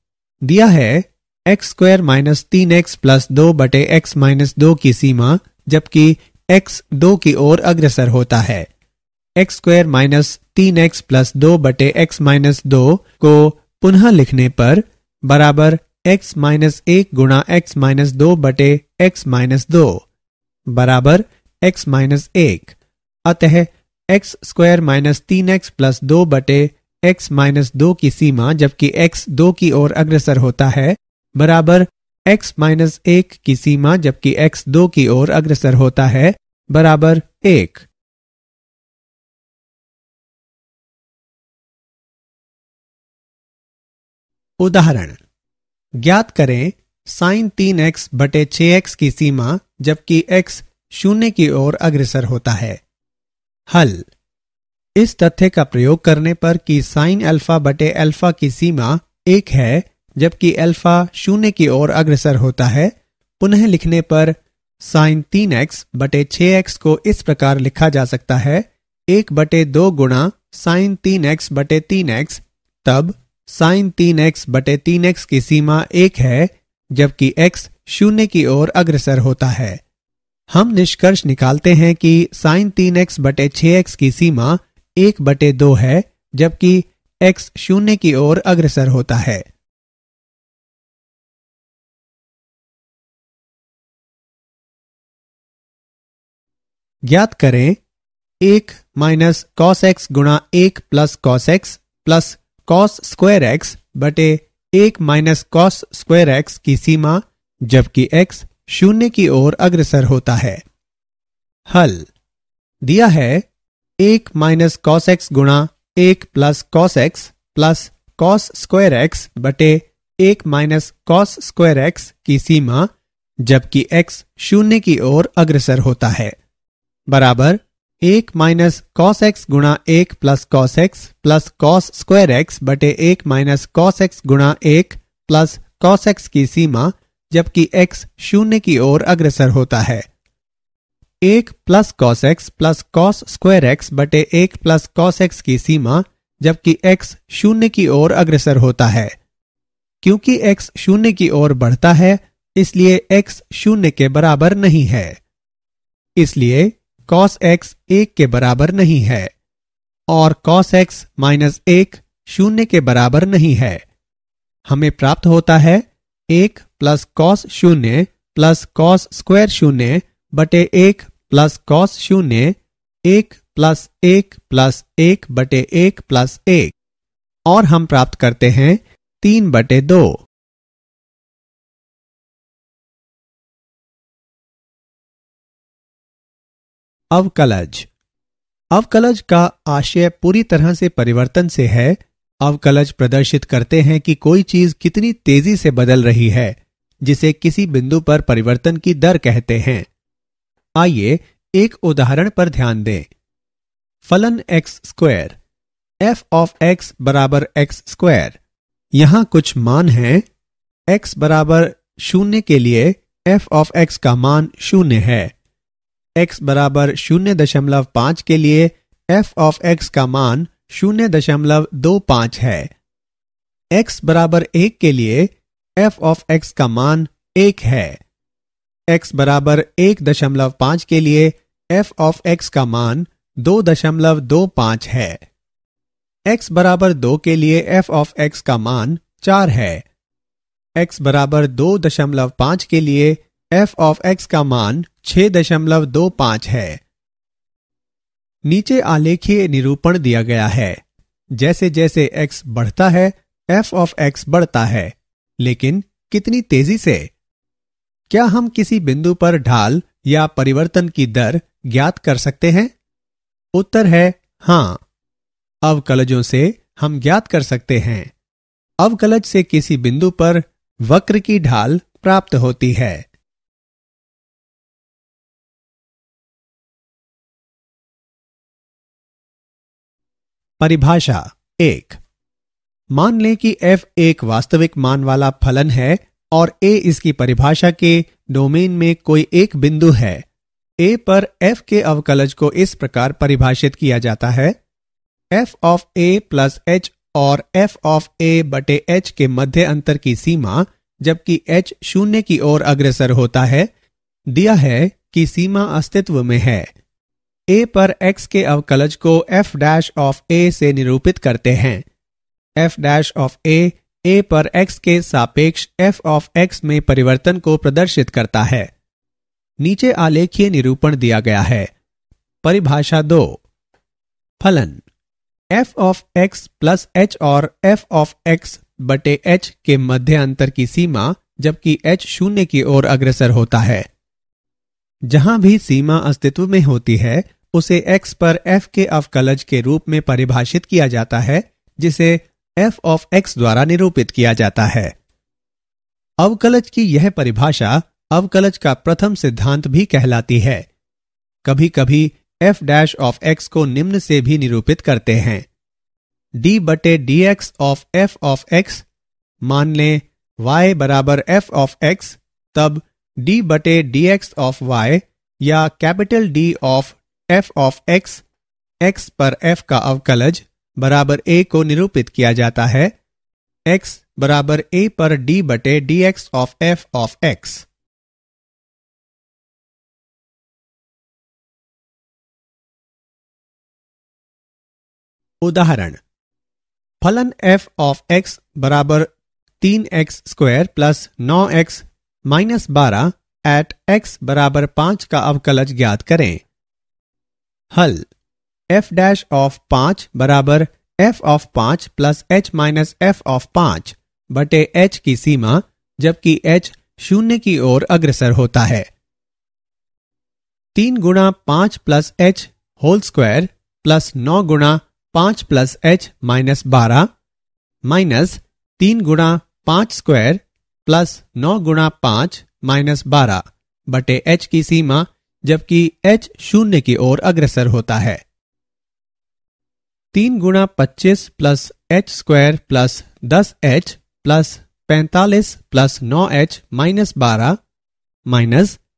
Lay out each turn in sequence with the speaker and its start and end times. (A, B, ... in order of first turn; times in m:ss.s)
0:00.4-0:08.7 A
0:09.4-0:20.0 A
0:20.7-0:37.9 A
0:44.6-0:45.2 A
0:46.0-0:52.8 A
0:53.7-0:54.1 A
0:55.0-1:19.8 A
1:20.5-1:29.4 A
1:37.1-1:37.8 A
1:38.4-1:50.6 A
1:51.7-1:52.1 A
1:52.8-1:53.4 A
1:54.0-2:02.9 A
2:03.4-2:06.4 A
2:07.1-2:20.1 A
2:21.2-2:29.1 A
2:30.0-2:35.2 A
2:36.2-2:39.3 A
2:40.1-2:43.8 A
2:44.7-2:56.7 A
2:57.5-3:00.2 A
3:07.1-3:07.9 A
3:08.7-3:19.9 A
3:20.8-3:23.1 A
3:24.0-3:25.4 A
3:26.0-3:28.4 A
3:28.9-3:30.2 A
3:30.9-3:35.3 A
3:36.2-3:42.7 A
3:43.7-3:48.0 A
3:48.9-3:55.2 A
3:56.3-3:59.8 A
4:00.8-4:06.8 A
4:08.4-4:10.8 A
4:11.4-4:17.1 A
4:18.1-4:22.7 A
4:23.6-4:24.8 A
4:25.6-4:28.1 A
4:28.8-4:33.1 A
4:40.6-4:42.0 A
4:42.9-4:50.2 A
4:50.8-4:54.6 A
4:55.3-5:03.7 A
5:04.3-5:06.7 A
5:07.5-5:11.8 A
5:12.6-5:18.7 A
5:19.6-5:21.7 A
5:22.4-5:23.4 A
5:24.4-5:24.8 A
5:25.5-5:33.9 A
5:35.1-5:44.9 A
5:46.2-5:50.7 A
5:51.4-5:55.4 A
5:56.4-5:58.9 A
5:59.4-6:08.2 A
6:08.8-6:12.9 A
6:13.7-6:17.6 A
6:25.4-6:26.0 A
6:27.0-6:36.4 A
6:37.7-6:38.1 A
6:38.7-6:48.9 A
6:50.7-6:57.1 A
6:57.8-7:08.2 A
7:10.1-7:17.6 A
7:18.3-7:18.8 A